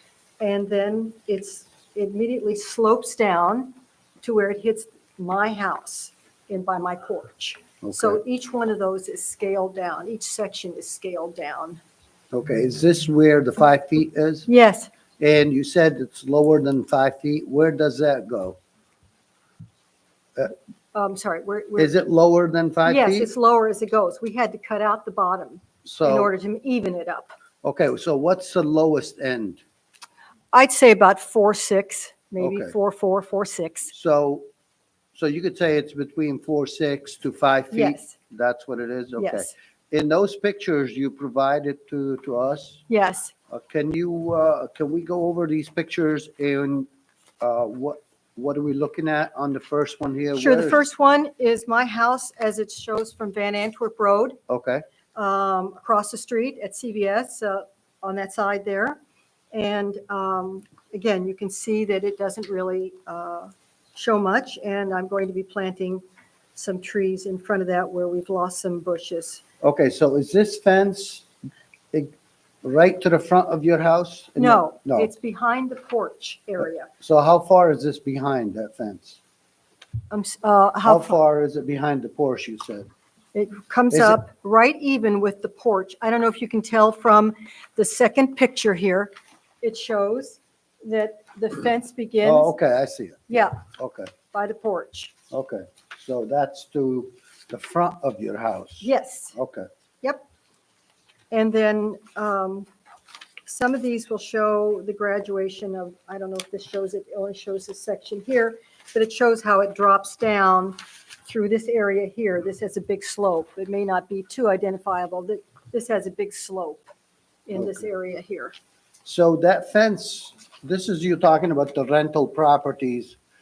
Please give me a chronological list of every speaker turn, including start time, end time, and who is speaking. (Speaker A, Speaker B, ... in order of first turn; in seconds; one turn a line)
Speaker A: 0.4-11.8
Speaker B: 7.8-8.2
Speaker B: 12.3-14.5
Speaker A: 14.5-14.9
Speaker B: 15.2-18.6
Speaker A: 20.9-21.9
Speaker B: 21.8-23.3
Speaker A: 22.9-27.4
Speaker B: 25.9-26.3
Speaker B: 27.6-29.6
Speaker A: 30.5-33.9
Speaker B: 32.4-32.8
Speaker B: 33.9-34.5
Speaker B: 35.1-42.8
Speaker A: 37.7-38.1
Speaker A: 39.2-39.5
Speaker A: 42.9-43.3
Speaker B: 43.5-46.9
Speaker B: 47.4-50.8
Speaker A: 50.3-54.4
Speaker B: 54.5-54.8
Speaker A: 55.1-59.0
Speaker A: 59.5-66.0
Speaker A: 66.5-69.4
Speaker B: 69.6-71.3
Speaker B: 71.9-75.1
Speaker A: 74.4-76.9
Speaker B: 77.0-79.2
Speaker A: 80.1-81.2
Speaker B: 80.8-82.9
Speaker A: 83.3-92.6
Speaker B: 83.9-84.2
Speaker B: 92.2-94.1
Speaker A: 93.3-93.6
Speaker A: 94.3-95.1
Speaker B: 95.3-99.7
Speaker A: 98.8-99.4
Speaker A: 101.3-102.7
Speaker A: 103.5-116.9
Speaker A: 117.5-118.5
Speaker B: 117.5-117.8
Speaker B: 119.0-123.2